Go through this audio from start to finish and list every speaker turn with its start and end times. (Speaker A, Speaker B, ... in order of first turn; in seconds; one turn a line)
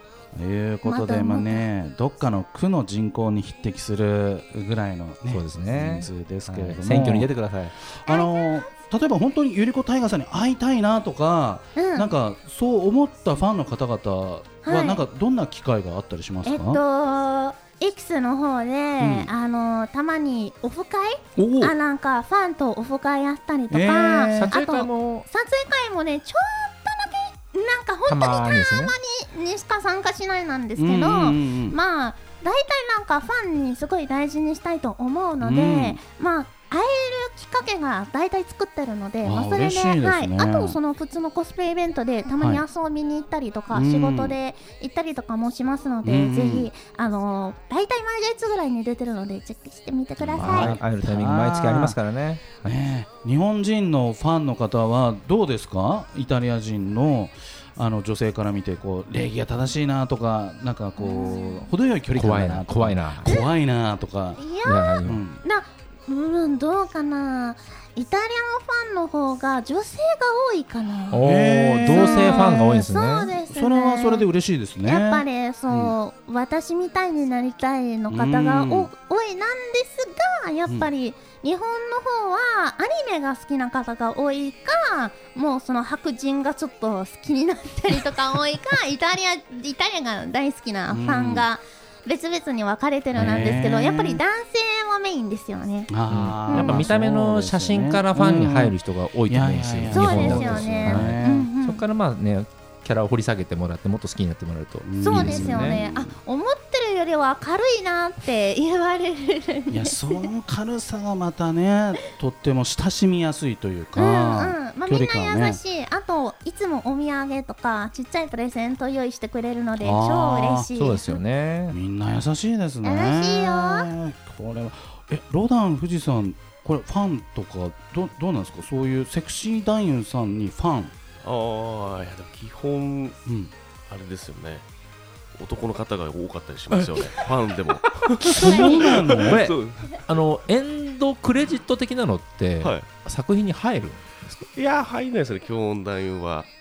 Speaker A: 0.3-7.3
Speaker B: 0.8-1.6
Speaker C: 5.3-7.7
Speaker A: 7.8-16.8
Speaker B: 8.1-8.3
Speaker B: 11.8-12.1
Speaker B: 14.6-15.0
Speaker B: 16.4-50.8
Speaker A: 19.0-19.3
Speaker A: 21.4-21.7
Speaker A: 23.7-24.6
Speaker C: 24.3-25.2
Speaker C: 28.1-28.9
Speaker A: 30.8-31.8
Speaker A: 35.4-36.0
Speaker A: 39.2-40.8
Speaker A: 43.7-44.4
Speaker A: 46.0-46.7
Speaker A: 50.3-52.0
Speaker C: 50.3-52.8
Speaker A: 52.6-64.4
Speaker B: 61.0-61.7
Speaker C: 62.1-63.4
Speaker B: 64.3-71.2
Speaker C: 64.6-65.2
Speaker A: 65.0-65.4
Speaker C: 71.1-73.3
Speaker A: 71.2-72.6
Speaker B: 71.8-74.3
Speaker A: 73.5-76.0
Speaker B: 74.8-95.9
Speaker A: 78.1-78.9
Speaker A: 90.9-91.5
Speaker C: 93.1-93.6
Speaker A: 93.1-94.2
Speaker A: 95.9-98.8
Speaker C: 96.1-105.8
Speaker B: 96.5-96.8
Speaker A: 99.3-101.5
Speaker B: 99.9-101.8
Speaker A: 104.8-106.1
Speaker B: 105.0-110.3
Speaker A: 109.7-115.6
Speaker B: 114.0-121.2
Speaker A: 119.8-120.7
Speaker C: 120.8-121.8
Speaker A: 121.7-130.9
Speaker B: 122.8-123.9
Speaker D: 131.2-133.2
Speaker A: 133.3-133.5
Speaker D: 133.9-134.7
Speaker D: 135.4-140.0
Speaker A: 138.2-139.4
Speaker B: 138.4-138.9
Speaker C: 139.2-144.5
Speaker D: 142.6-142.9
Speaker D: 144.5-146.5